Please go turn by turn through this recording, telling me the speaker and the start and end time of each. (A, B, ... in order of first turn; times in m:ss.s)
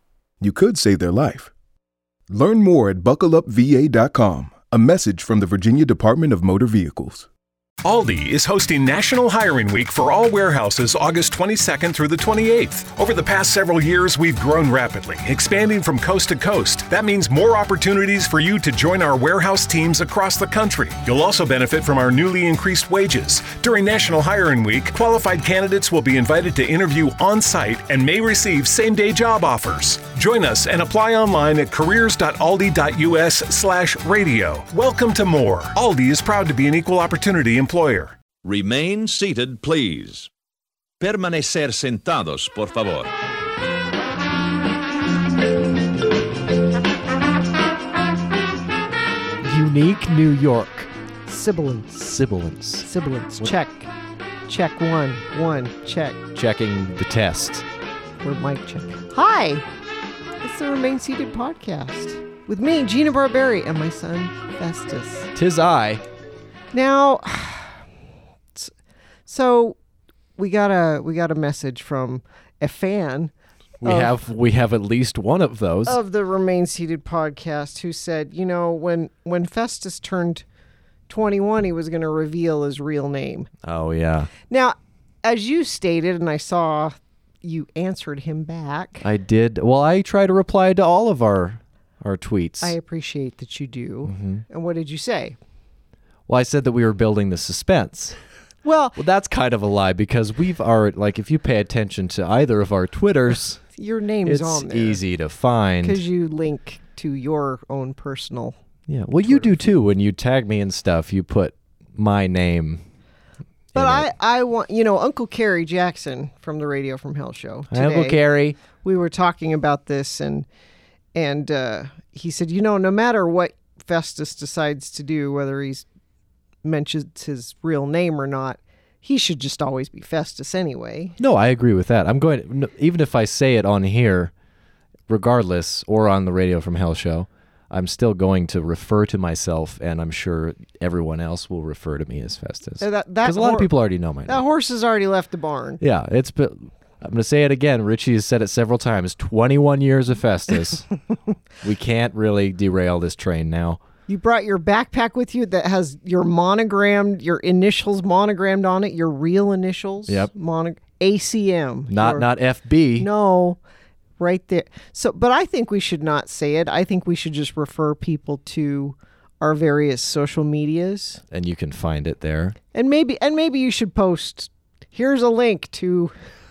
0:00.4-0:01.5 A
0:02.3-0:07.3 A
0:07.8-0:38.1 B
0:38.4-0:40.3 C
0:41.0-0:43.1 C
0:49.4-0:50.9 D
0:51.3-0:52.0 E
0:51.9-0:53.5 D
0:52.8-0:53.9 E
0:54.5-0:56.2 E
0:56.3-0:57.7 D
0:58.2-0:59.6 E
1:00.4-1:05.3 E
1:05.3-1:06.0 D
1:06.7-1:07.8 E
1:09.2-1:09.8 E
1:10.4-1:14.2 E
1:13.8-1:16.0 D
1:15.8-1:20.4 E
1:21.1-1:23.5 E
1:23.6-1:24.3 D
1:24.4-1:29.1 E
1:29.0-1:32.8 D
1:32.6-1:35.4 E
1:34.0-1:34.4 D
1:36.3-1:38.2 D
1:38.6-1:39.0 E
1:39.0-1:43.6 D
1:43.7-1:45.0 E
1:44.2-1:46.0 D
1:45.8-1:48.6 E
1:48.9-1:52.8 D
1:49.2-1:49.7 E
1:53.7-1:54.1 D
1:53.7-1:58.2 E
1:57.7-1:58.6 D
1:58.7-2:00.5 E
2:01.1-2:05.8 E
2:06.6-2:11.2 E
2:11.2-2:14.3 D
2:15.1-2:24.4 D
2:22.8-2:25.8 E
2:25.8-2:30.9 D
2:31.6-2:33.8 D
2:34.1-2:42.3 E
2:41.9-2:43.1 D
2:43.0-2:43.6 E
2:44.2-2:51.2 E
2:51.3-2:52.6 D
2:52.7-2:56.1 E